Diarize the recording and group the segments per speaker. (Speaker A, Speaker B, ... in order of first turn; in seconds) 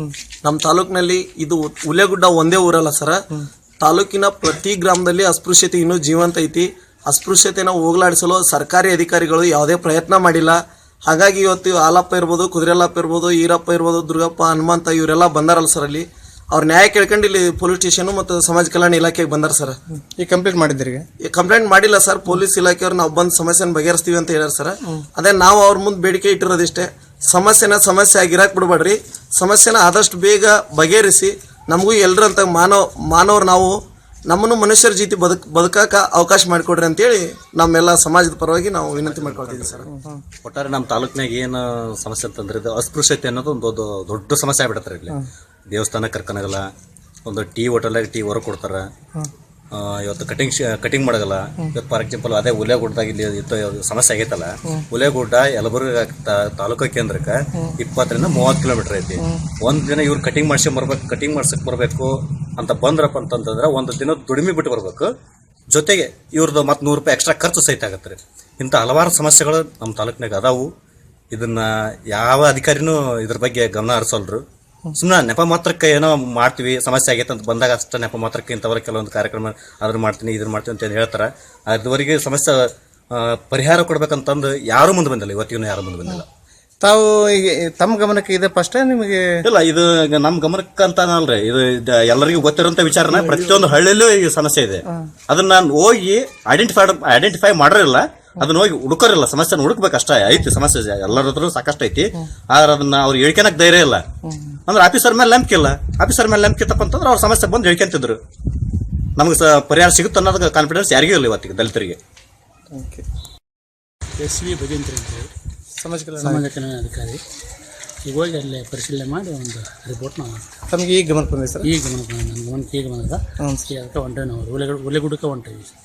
Speaker A: 0.4-3.2, 3.8-19.8, 21.2-33.8, 34.3-39.9
Speaker B: 20.2-21.1, 86.8-89.5, 112.7-113.0, 115.8-116.5, 120.7-121.7
Speaker C: 39.0-39.9, 40.4-45.2, 45.7-46.7, 47.3-48.9, 49.7-65.1, 65.7-70.7, 71.3-74.4, 75.0-86.3, 89.4-104.0, 104.7-108.2, 109.2-112.0
Speaker D: 114.2-115.3, 116.2-117.2, 118.0-120.4, 121.6-125.7